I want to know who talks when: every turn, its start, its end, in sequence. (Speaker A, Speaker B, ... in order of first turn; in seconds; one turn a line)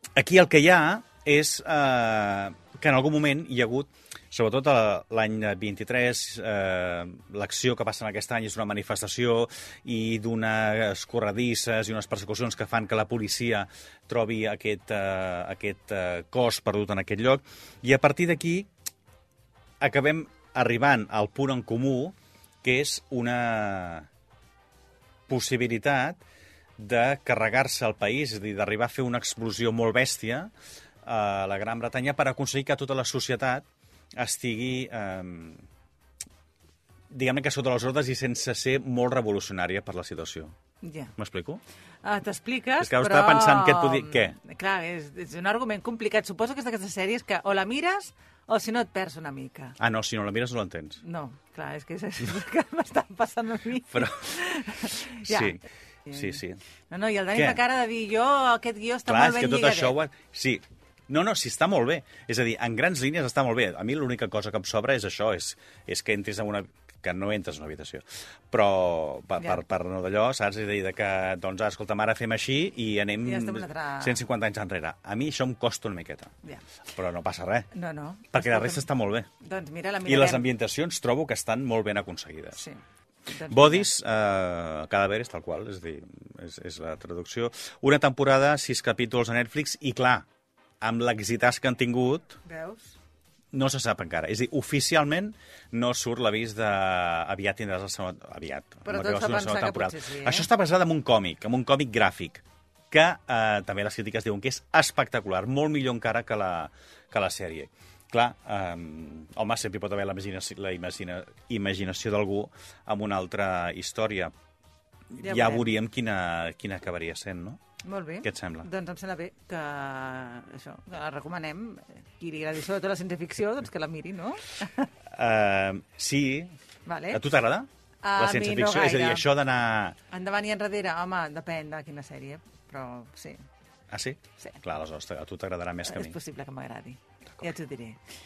Speaker A: 0.2-18.7
Speaker A: 19.8-24.1
Speaker A: 25.3-26.2
Speaker A: 26.8-30.5
Speaker A: 31.1-33.6
Speaker A: 34.2-35.6
Speaker A: 37.1-40.5
Speaker B: 40.8-41.1
Speaker A: 41.2-41.6
Speaker B: 42.0-49.8
Speaker A: 42.8-44.4
Speaker A: 49.8-51.0
Speaker B: 51.0-60.0
Speaker A: 55.2-55.6
Speaker A: 56.1-56.6
Speaker A: 57.3-57.6
Speaker A: 59.1-76.3
Speaker B: 73.2-74.2
Speaker A: 76.9-77.7
Speaker B: 77.7-78.9
Speaker A: 78.3-79.3
Speaker B: 79.4-80.5
Speaker A: 80.0-82.6
Speaker B: 82.6-83.9
Speaker A: 83.5-90.2
Speaker A: 90.8-92.4
Speaker B: 92.5-93.0
Speaker A: 93.5-114.3
Speaker B: 98.8-100.5
Speaker A: 115.2-117.6
Speaker B: 115.2-115.7
Speaker B: 117.8-124.9
Speaker A: 118.2-118.7
Speaker A: 125.1-126.5
Speaker B: 126.8-127.2
Speaker A: 127.1-130.0
Speaker B: 128.0-129.3
Speaker B: 130.1-133.4
Speaker A: 133.9-136.2
Speaker B: 135.8-138.0